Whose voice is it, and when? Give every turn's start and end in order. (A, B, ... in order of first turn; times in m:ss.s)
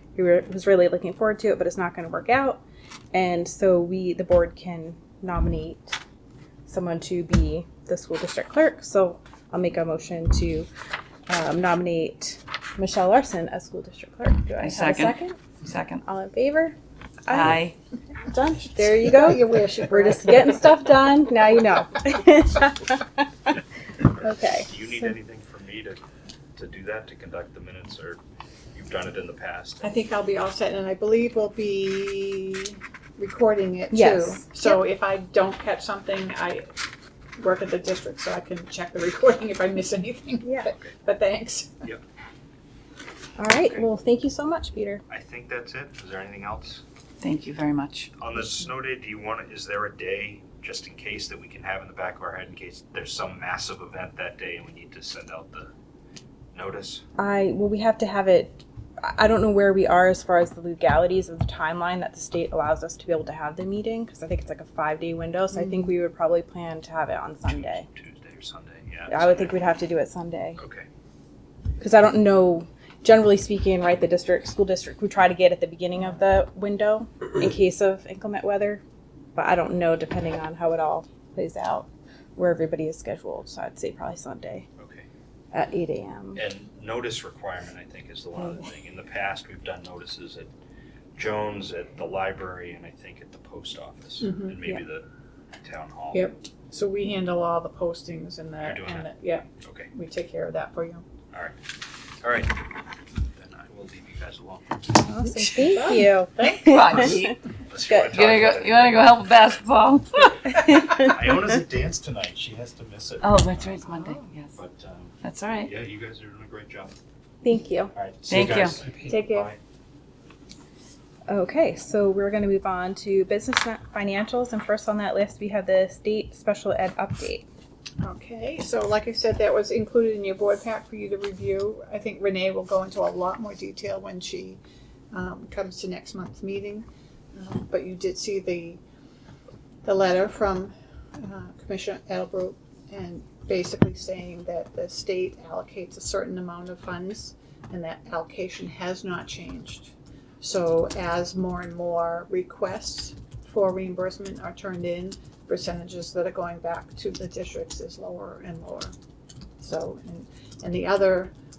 0:00.2-0:06.0 A
0:06.7-0:10.7 A
0:11.3-0:15.4 A
0:14.6-0:16.0 B
0:16.0-0:17.6 A
0:17.3-0:17.8 B
0:18.2-0:23.5 A
0:18.9-0:20.7 C
0:24.2-0:24.7 A
0:24.2-0:26.0 D
0:26.6-0:28.2 D
0:28.7-0:29.9 D
0:29.8-0:36.6 C
0:33.9-0:34.8 A
0:37.4-0:41.9 C
0:40.4-0:40.7 A
0:43.4-0:45.0 A
0:45.1-0:46.8 D
0:47.2-0:48.1 B
0:48.2-0:55.7 D
0:56.5-0:57.0 D
0:57.2-1:07.9 A
1:05.5-1:06.0 C
1:07.4-1:09.7 D
1:09.1-1:10.6 A
1:10.6-1:10.9 D
1:11.8-1:18.8 A
1:19.4-1:24.7 A
1:24.8-1:25.1 D
1:25.5-1:26.4 A
1:26.4-1:30.5 D
1:31.2-1:35.1 D
1:34.2-1:34.6 C
1:35.6-1:36.3 D
1:36.1-1:41.0 C
1:38.6-1:39.1 D
1:39.6-1:39.9 D
1:41.3-1:41.6 D
1:42.2-1:42.6 D
1:43.4-1:44.8 D
1:45.0-1:47.4 A
1:45.5-1:45.9 B
1:45.6-1:46.6 C
1:46.6-1:47.4 B
1:46.9-1:49.1 D
1:47.9-1:48.1 A
1:48.1-1:50.5 B
1:50.5-1:54.0 D
1:50.8-1:51.1 A
1:53.2-1:54.6 B
1:54.6-1:57.0 D
1:55.2-1:55.7 B
1:57.4-1:57.9 A
1:57.9-1:59.6 D
1:58.3-1:58.8 B
1:59.0-1:59.5 C
2:01.3-2:07.5 A
2:08.0-2:14.6 C
2:15.1-2:18.8 C
2:19.8-2:38.9 C
2:39.6-2:41.3 C